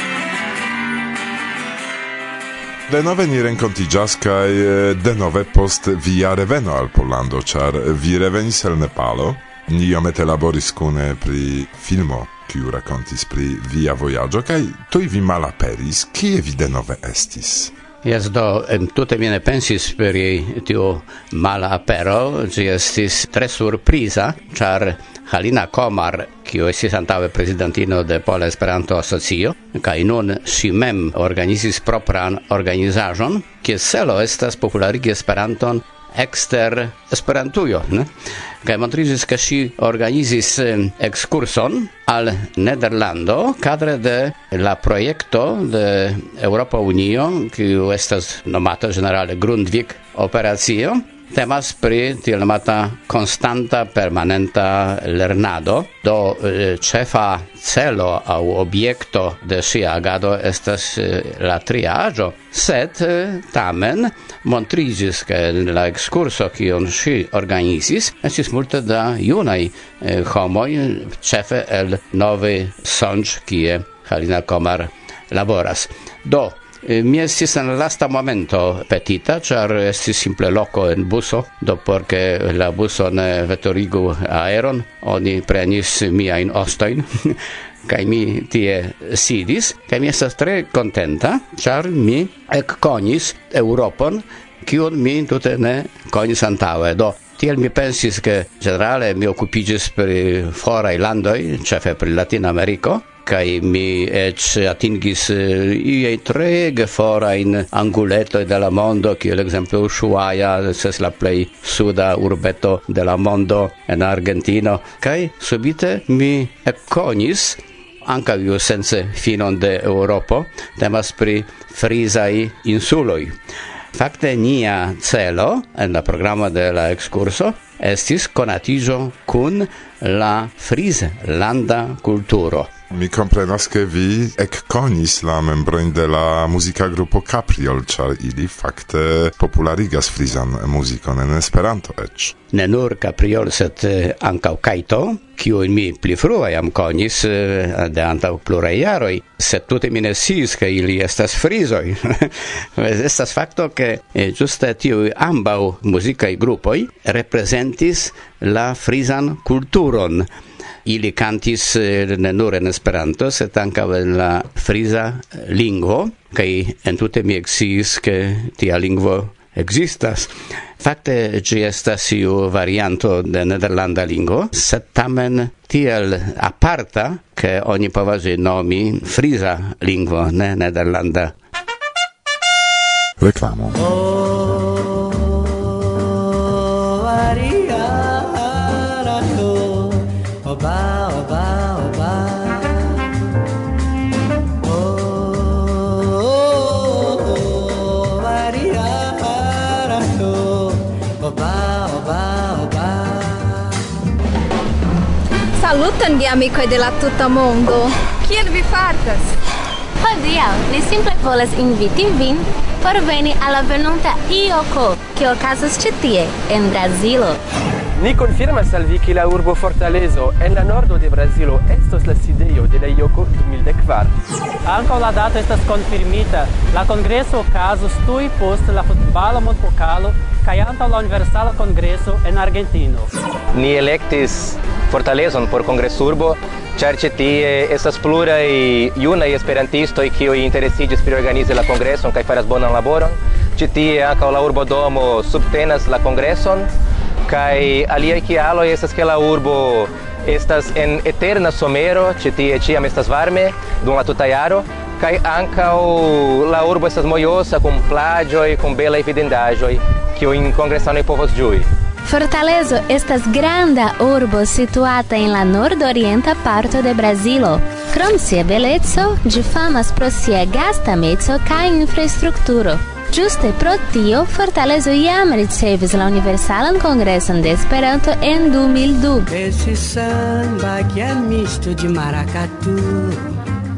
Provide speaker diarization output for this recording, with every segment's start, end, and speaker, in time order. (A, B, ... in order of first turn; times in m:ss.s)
0:02.9-0:17.7 A
0:18.0-0:38.1 B
0:38.6-2:03.4 B
2:03.9-2:12.7 B
2:12.9-2:22.4 A
2:22.5-2:40.3 B
2:40.8-3:01.3 B
3:03.2-3:03.8 A
3:03.8-3:12.8 C
3:14.6-3:23.7 C
3:25.6-3:29.3 D
3:30.0-3:37.4 E
3:38.0-3:44.1 F
3:44.6-3:53.1 G
3:53.5-4:06.6 H
4:07.3-4:21.6 H
4:22.0-4:39.3 E
4:39.3-4:43.2 C